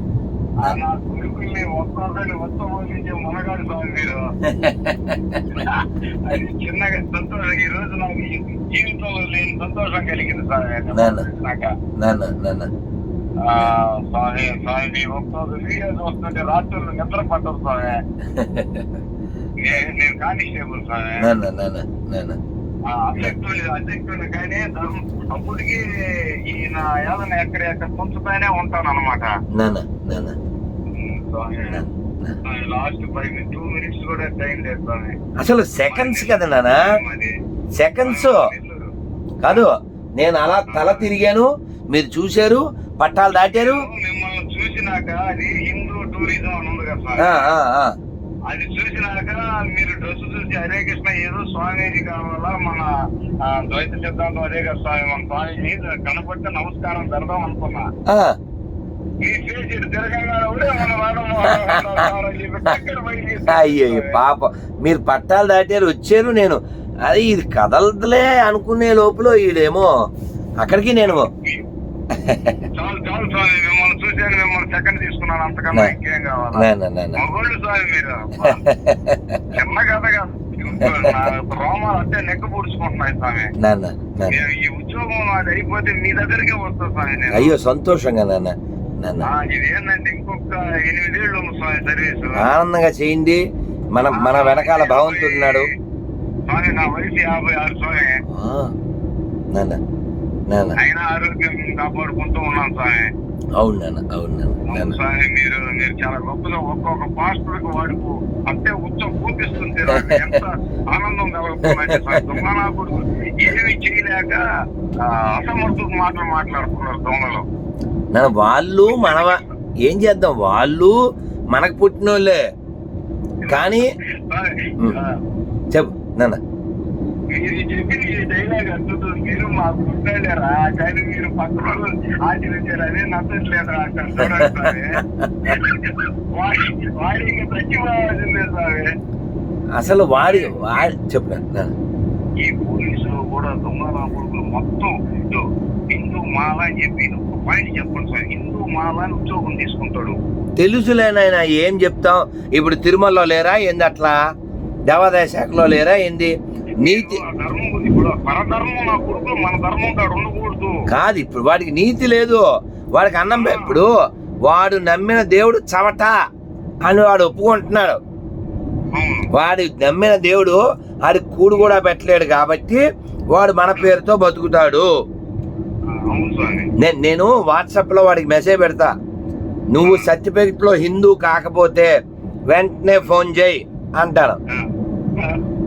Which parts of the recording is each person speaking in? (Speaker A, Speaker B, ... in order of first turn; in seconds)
Speaker A: 0.6-4.3, 5.5-11.7, 13.4-18.0, 19.6-21.3, 22.9-25.9, 26.5-29.3, 30.9-31.8, 32.5-35.2, 35.9-37.3, 38.0-38.9, 40.7-41.1, 43.3-47.5, 48.5-52.9, 53.4-57.9, 59.2-64.2, 71.0-71.7, 72.7-78.6, 79.5-83.5, 84.2-87.5, 89.2-92.5, 94.1-95.7, 96.5-98.2, 100.8-103.1, 104.7-114.4, 115.0-117.4, 118.9-119.5, 123.5-125.2, 127.3-138.9, 140.2-140.5, 142.4-150.2, 156.8-160.8, 163.3-163.8, 168.9-169.3, 175.9-176.7, 179.8-180.1
Speaker B: 4.4-5.6, 10.9-11.2, 12.0-12.7, 18.3-18.9, 21.2-22.4, 29.6-30.4, 31.7-32.4, 35.4-36.9, 37.8-38.5, 39.4-43.9, 47.2-47.9, 58.1-58.4, 61.6-62.1, 63.5-69.9, 70.6-71.3, 72.1-72.6, 76.5-77.2, 78.4-79.4, 80.8-81.3, 83.6-84.4, 87.3-89.3, 92.3-93.4, 93.9-95.7, 98.3-98.7, 99.5-99.8, 100.5-100.8, 103.6-105.0, 109.9-110.4, 111.7-112.4, 118.1-121.0, 121.5-122.4, 123.5-123.9, 125.7-126.4, 134.2-135.6, 139.8-141.7, 150.6-154.2, 154.9-157.2, 160.9-163.9, 164.5-166.2, 166.8-168.0, 169.3-174.9, 176.8-178.9, 179.7-181.9, 182.5-184.4